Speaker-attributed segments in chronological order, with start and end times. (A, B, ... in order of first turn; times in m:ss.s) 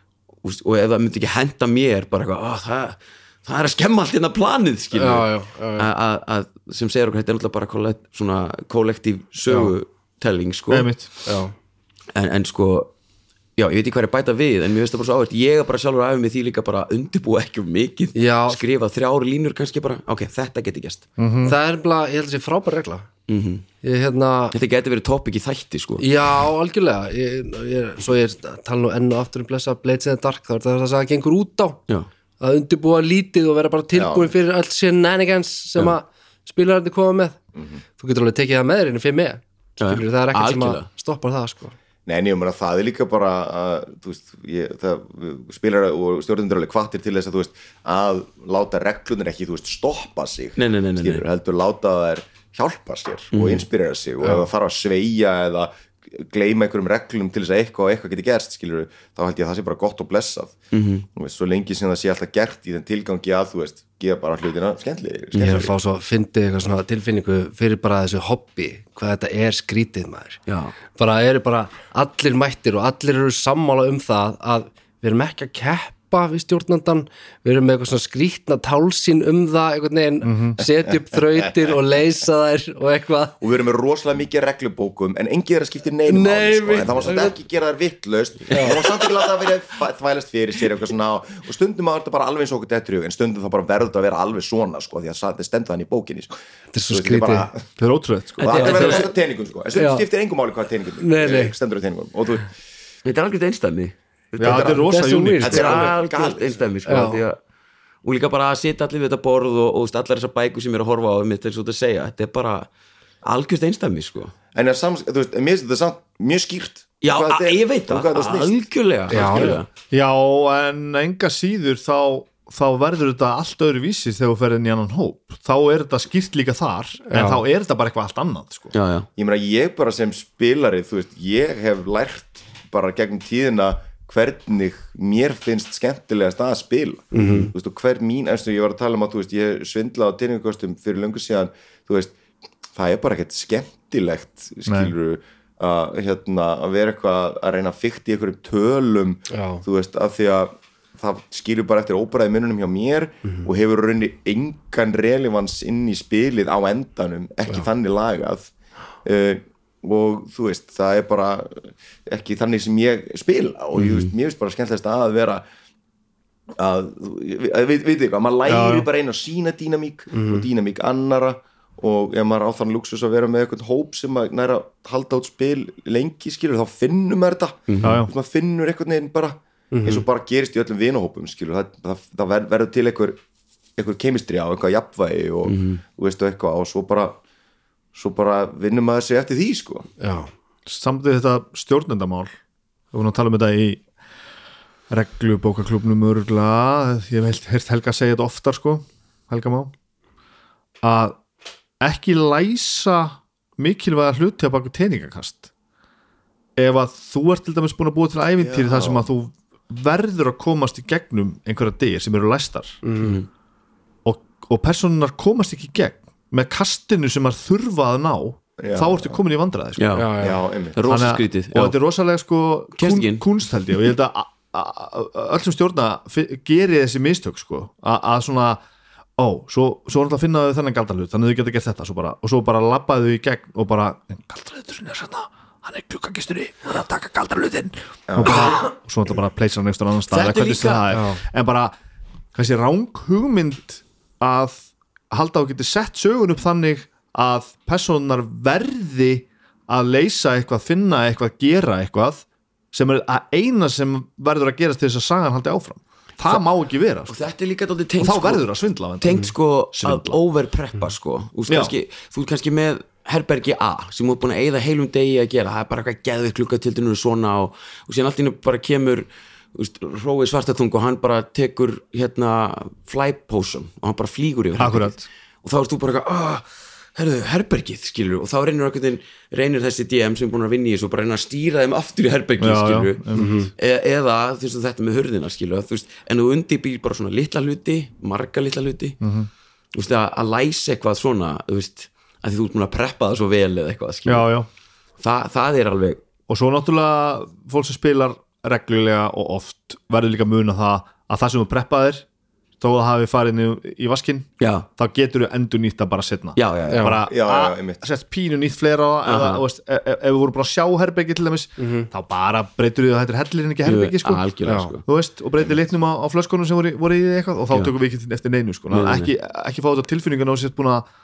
0:00.4-0:10.9 A
0:04.9-0:05.9 B
0:10.7-0:11.1 C
0:11.3-0:11.5 B
0:12.1-0:12.9 A
0:13.6-0:21.1 A
0:18.2-0:18.6 B
0:21.2-0:21.6 C
0:21.4-0:23.1 B
0:23.3-0:23.6 A
0:23.8-0:24.5 B
0:24.5-0:26.1 A
0:26.0-0:31.8 B
0:32.4-0:37.4 B
0:33.9-0:34.3 D
0:37.6-0:37.8 D
0:38.0-0:41.8 B
0:39.8-0:40.9 A
0:42.1-1:00.6 D
0:50.6-0:51.2 A
0:53.3-0:53.6 A
1:00.7-1:01.1 A
1:01.1-1:05.7 D
1:05.3-1:05.7 A
1:05.4-1:10.4 B
1:10.5-1:10.7 A
1:11.0-1:23.4 B
1:20.2-1:20.6 C
1:23.4-1:36.3 D
1:26.1-1:27.4 B
1:28.5-1:28.9 B
1:36.7-1:37.5 B
1:36.9-1:37.7 D
1:37.8-1:38.9 C
1:38.4-1:42.5 D
1:38.4-1:39.1 A
1:38.6-1:39.0 B
1:39.8-1:40.1 B
1:41.0-1:41.5 B
1:43.1-1:44.8 A
1:44.4-1:44.8 D
1:44.4-1:45.7 C
1:44.7-1:45.9 B
1:45.4-1:47.4 A
1:45.4-1:46.6 D
1:46.9-1:47.2 B
1:48.0-1:52.7 A
1:53.2-1:54.3 A
1:54.5-1:58.6 D
1:57.0-1:59.7 A
1:59.1-1:59.6 B
1:59.2-1:59.5 D
1:59.9-2:08.7 C
2:07.1-2:07.4 B
2:08.7-2:09.1 A
2:09.2-2:22.2 D
2:17.1-2:17.5 B
2:22.7-2:38.5 D
2:24.7-2:24.9 C
2:29.3-2:29.6 B
2:39.0-2:45.4 D
2:43.8-2:44.1 A
2:46.6-3:03.2 D
2:48.5-2:48.9 C
2:50.1-2:50.4 B
2:57.7-2:58.0 A
2:57.8-2:58.1 C
2:59.7-3:00.0 B
3:03.8-3:07.2 D
3:05.4-3:05.8 A
3:08.0-3:09.9 D
3:10.0-3:10.3 B
3:10.7-3:12.3 C
3:12.9-3:13.8 C
3:14.9-3:19.7 C
3:20.8-3:21.2 C
3:21.8-3:25.5 C
3:26.6-3:32.8 C
3:28.4-3:29.1 D
3:32.8-3:33.2 B
3:33.0-3:33.3 A
3:34.0-3:40.0 C
3:38.6-3:39.2 D
3:39.8-3:41.8 A
3:40.0-3:40.4 B
3:40.2-3:40.8 D
3:40.9-3:48.6 C
3:42.8-3:43.2 A
3:49.2-4:01.7 C
3:58.1-3:58.5 D
3:58.2-3:58.7 A
4:00.1-4:00.8 A
4:00.9-4:01.2 B
4:02.3-4:17.2 C
4:17.1-4:36.4 A
4:18.0-4:20.2 C
4:21.5-4:21.7 C
4:34.6-4:35.0 C
4:37.0-4:49.0 A
4:42.4-4:43.3 C
4:43.2-4:43.5 B
4:49.0-4:49.3 C
4:49.7-4:54.3 A
4:54.1-4:54.5 C
4:55.0-4:56.0 A
4:56.3-5:02.0 C
5:02.6-5:20.9 C
5:04.4-5:04.7 A
5:06.4-5:07.0 A
5:06.7-5:07.0 B
5:07.1-5:07.8 D
5:09.0-5:09.4 A
5:11.6-5:11.9 B
5:13.6-5:14.8 A
5:14.5-5:14.7 B
5:18.7-5:19.1 A